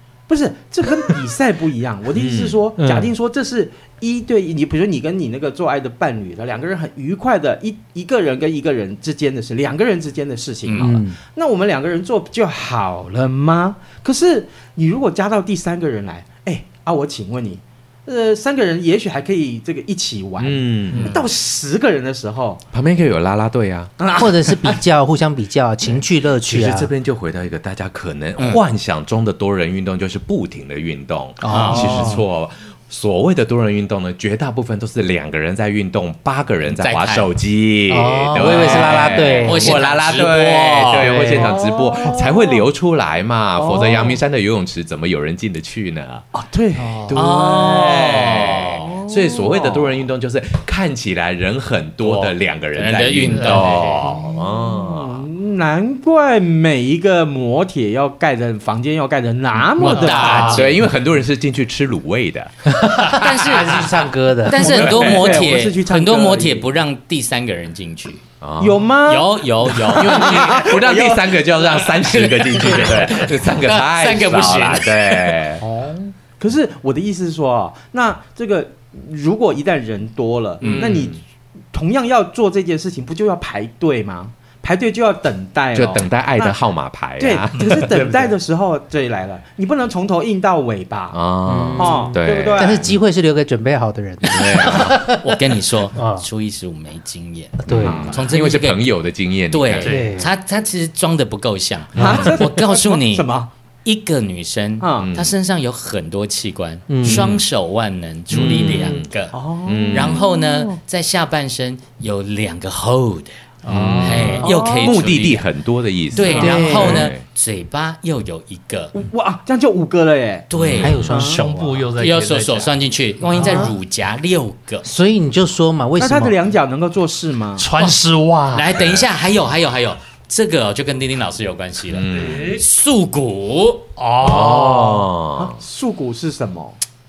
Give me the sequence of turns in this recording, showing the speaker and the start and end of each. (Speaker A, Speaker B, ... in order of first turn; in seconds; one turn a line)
Speaker A: 0.3-22.6
Speaker B: 2.1-2.6
Speaker C: 2.8-3.1
Speaker D: 10.7-11.0
Speaker C: 10.8-11.2
Speaker B: 20.4-21.1
Speaker B: 22.7-23.9
Speaker A: 24.0-24.8
Speaker C: 24.2-26.9
Speaker B: 26.4-46.2
Speaker C: 31.4-32.2
Speaker D: 31.5-32.1
Speaker D: 36.7-37.3
Speaker C: 37.9-39.8
Speaker D: 38.4-41.4
Speaker C: 41.0-42.1
Speaker A: 41.3-42.6
Speaker A: 43.6-44.0
Speaker A: 46.4-47.2
Speaker B: 47.0-55.3
Speaker D: 47.1-48.9
Speaker A: 48.8-50.0
Speaker D: 52.0-54.2
Speaker E: 53.3-53.8
Speaker A: 54.1-60.7
Speaker D: 59.8-60.6
Speaker E: 59.9-60.7
Speaker B: 59.9-62.5
Speaker C: 62.8-64.9
Speaker D: 63.1-63.9
Speaker D: 64.5-68.2
Speaker A: 64.6-66.7
Speaker B: 64.7-65.4
Speaker B: 68.4-68.9
Speaker A: 68.6-71.5
Speaker D: 69.1-70.4
Speaker B: 69.9-75.7
Speaker D: 72.0-75.4
Speaker A: 75.6-81.2
Speaker B: 80.6-81.2
Speaker A: 81.7-86.6
Speaker B: 85.7-88.3
Speaker A: 87.2-91.2
Speaker B: 91.1-93.0
Speaker C: 91.5-95.4
Speaker A: 91.8-92.8
Speaker B: 94.2-95.0
Speaker D: 95.1-98.9
Speaker C: 95.9-96.2
Speaker C: 97.6-98.2
Speaker B: 97.7-100.0
Speaker D: 99.5-103.3
Speaker E: 99.8-100.1
Speaker C: 99.8-100.3
Speaker A: 102.0-103.5
Speaker D: 103.8-109.4
Speaker A: 104.8-105.1
Speaker B: 105.0-105.3
Speaker C: 106.9-107.4
Speaker B: 107.0-107.4
Speaker B: 108.3-109.1
Speaker A: 109.3-110.8
Speaker B: 109.7-110.2
Speaker D: 109.9-113.4
Speaker C: 113.7-114.5
Speaker B: 113.7-117.2
Speaker D: 114.0-115.5
Speaker A: 114.3-115.0
Speaker D: 116.1-119.0
Speaker C: 116.2-117.1
Speaker A: 116.3-116.7
Speaker A: 118.9-120.5
Speaker D: 120.5-121.2
Speaker B: 120.5-121.1
Speaker C: 120.8-121.9
Speaker A: 121.1-121.5
Speaker E: 121.1-122.7
Speaker D: 122.0-124.8
Speaker E: 123.3-123.7
Speaker C: 123.4-123.8
Speaker C: 124.8-126.4
Speaker A: 126.0-127.7
Speaker E: 127.6-128.7
Speaker D: 128.5-134.0
Speaker B: 128.8-129.1
Speaker B: 131.9-132.5
Speaker E: 134.0-135.1
Speaker B: 134.2-135.6
Speaker A: 135.4-136.8